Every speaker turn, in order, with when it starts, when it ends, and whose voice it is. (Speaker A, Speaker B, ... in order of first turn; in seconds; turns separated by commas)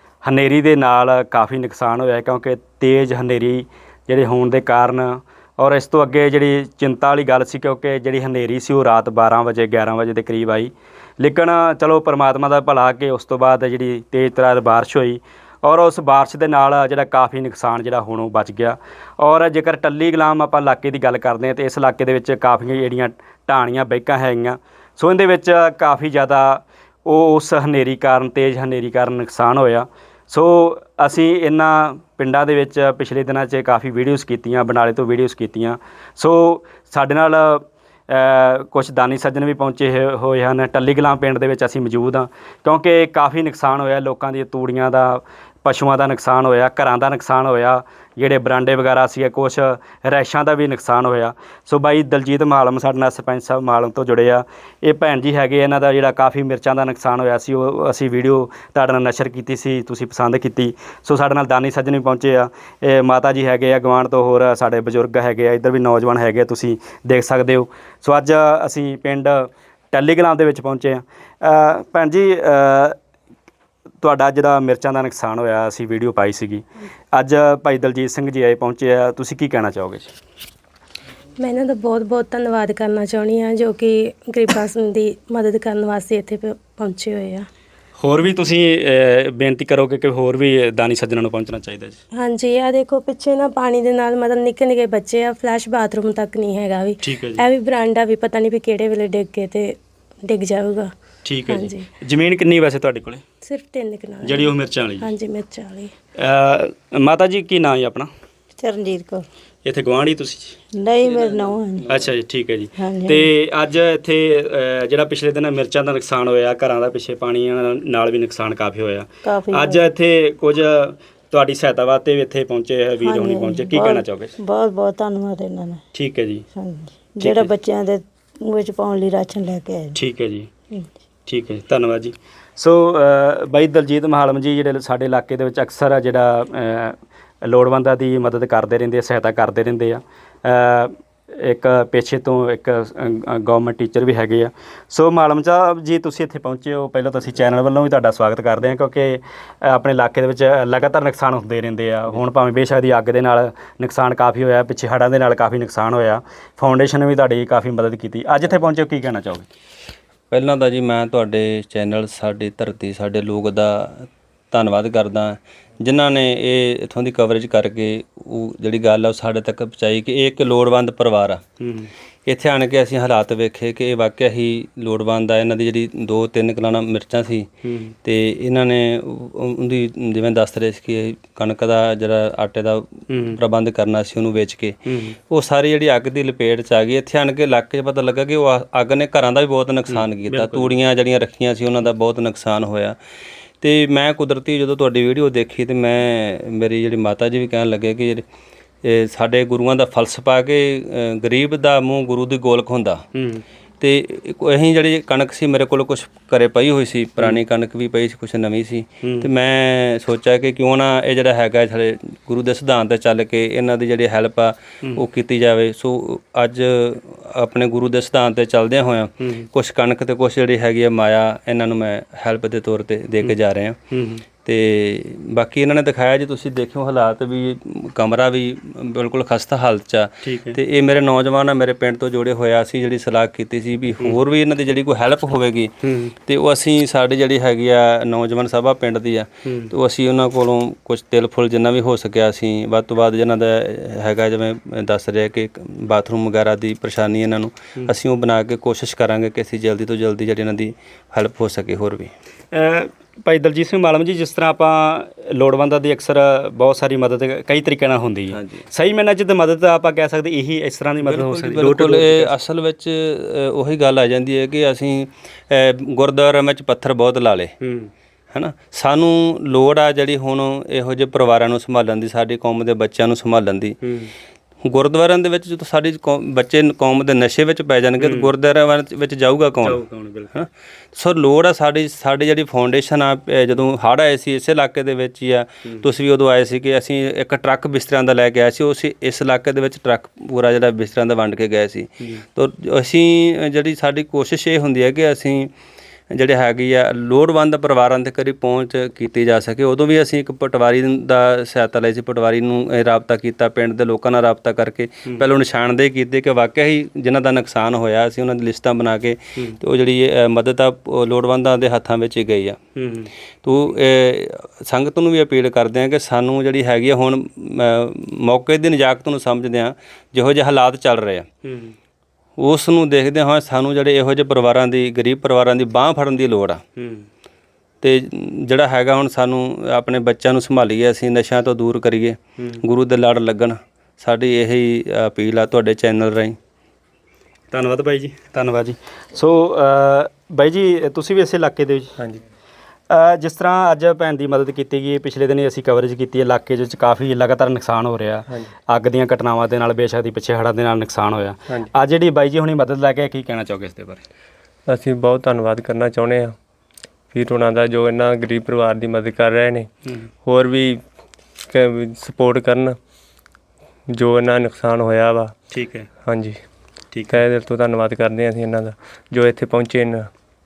Speaker A: 0.2-73.0, Speaker A: 74.0-80.1, Speaker B: 81.4-87.5, Speaker A: 88.0-92.0, Speaker B: 92.2-100.9, Speaker A: 97.0-97.4, Speaker A: 101.2-103.2, Speaker B: 101.5-101.8, Speaker B: 103.4-105.9, Speaker A: 104.2-105.1, Speaker A: 106.2-108.1, Speaker C: 108.6-109.2, Speaker A: 109.6-110.6, Speaker C: 110.7-111.9, Speaker A: 111.9-124.3, Speaker C: 112.8-113.3, Speaker C: 119.2-119.8, Speaker C: 123.0-125.8, Speaker A: 125.9-126.4, Speaker C: 126.5-130.0, Speaker A: 127.2-127.5, Speaker A: 129.9-130.5, Speaker A: 131.2-159.5, Speaker D: 160.3-171.4, Speaker A: 171.6-171.9, Speaker D: 172.3-177.5, Speaker A: 177.6-177.9, Speaker D: 178.0-184.8, Speaker A: 183.1-183.4, Speaker A: 184.9-185.2, Speaker D: 185.3-193.0, Speaker A: 189.9-190.7, Speaker D: 193.6-198.2, Speaker D: 198.8-203.0, Speaker A: 203.1-203.4, Speaker D: 203.8-223.8, Speaker A: 209.0-209.3, Speaker A: 219.2-219.5, Speaker A: 223.9-224.2, Speaker D: 224.4-235.7, Speaker A: 230.2-230.6, Speaker A: 235.8-236.1, Speaker D: 236.2-252.1, Speaker A: 239.4-239.7, Speaker A: 252.5-262.3, Speaker D: 258.3-258.6, Speaker D: 261.0-267.5, Speaker A: 267.6-267.9, Speaker D: 268.3-273.8, Speaker A: 273.8-274.1, Speaker D: 274.6-279.8, Speaker A: 278.0-278.3, Speaker A: 279.6-280.4, Speaker D: 280.3-295.5, Speaker D: 296.1-312.6, Speaker A: 312.8-313.1, Speaker D: 313.4-321.3, Speaker A: 321.4-321.7, Speaker D: 322.4-326.6, Speaker A: 326.8-327.1, Speaker D: 327.8-336.4, Speaker A: 337.5-341.9, Speaker A: 342.9-354.0, Speaker E: 354.7-356.3, Speaker E: 357.1-359.7, Speaker E: 360.2-360.8, Speaker E: 361.5-362.8, Speaker E: 363.9-365.3, Speaker A: 365.5-365.9, Speaker E: 366.0-366.4, Speaker E: 367.1-370.1